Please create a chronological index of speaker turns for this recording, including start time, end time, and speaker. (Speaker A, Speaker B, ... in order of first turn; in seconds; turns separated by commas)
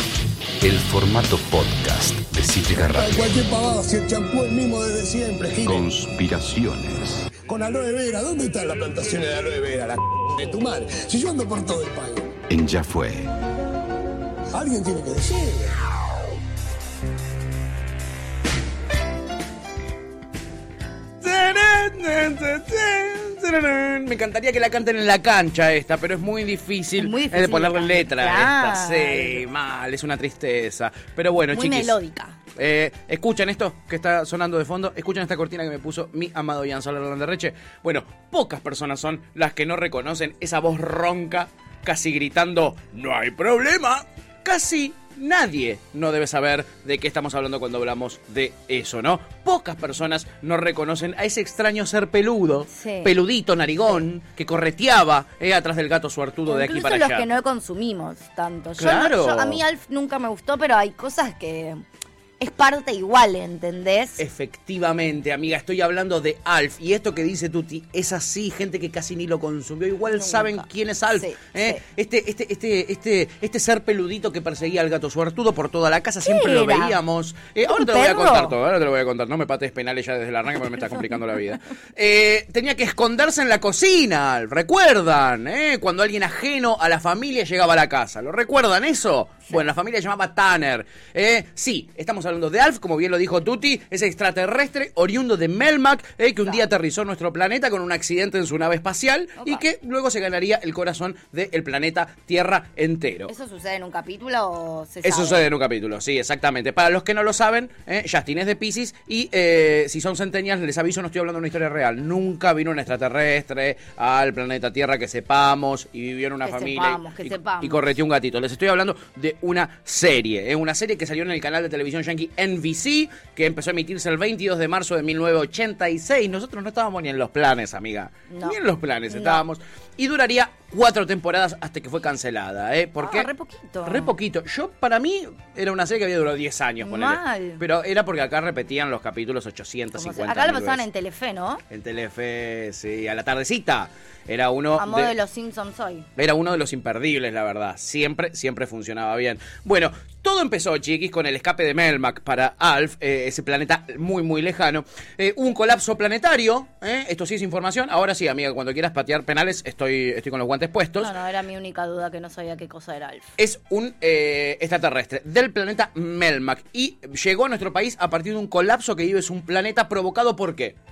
Speaker A: 0.6-3.4, Speaker B: 2.8-5.9, Speaker A: 5.6-7.2, Speaker B: 7.5-12.3, Speaker A: 12.5-13.3, Speaker B: 14.5-15.7, Speaker C: 21.2-32.0, Speaker D: 27.0-29.4, Speaker D: 31.5-32.4, Speaker C: 32.5-57.3, Speaker D: 52.7-53.1, Speaker D: 56.5-61.8, Speaker C: 58.8-59.6, Speaker D: 62.4-64.2, Speaker C: 64.2-103.3, Speaker D: 70.1-71.8, Speaker D: 76.2-77.0, Speaker D: 77.7-78.5, Speaker D: 80.9-81.2, Speaker D: 99.4-99.6, Speaker D: 103.3-105.5, Speaker C: 105.0-133.3, Speaker D: 116.4-117.9, Speaker D: 128.3-128.6, Speaker D: 129.1-129.4, Speaker D: 133.0-134.1, Speaker C: 133.8-140.8, Speaker D: 136.8-137.6, Speaker D: 139.9-141.6, Speaker C: 141.7-145.1, Speaker D: 144.8-146.1, Speaker C: 146.2-161.1, Speaker D: 161.0-163.3, Speaker C: 163.4-170.8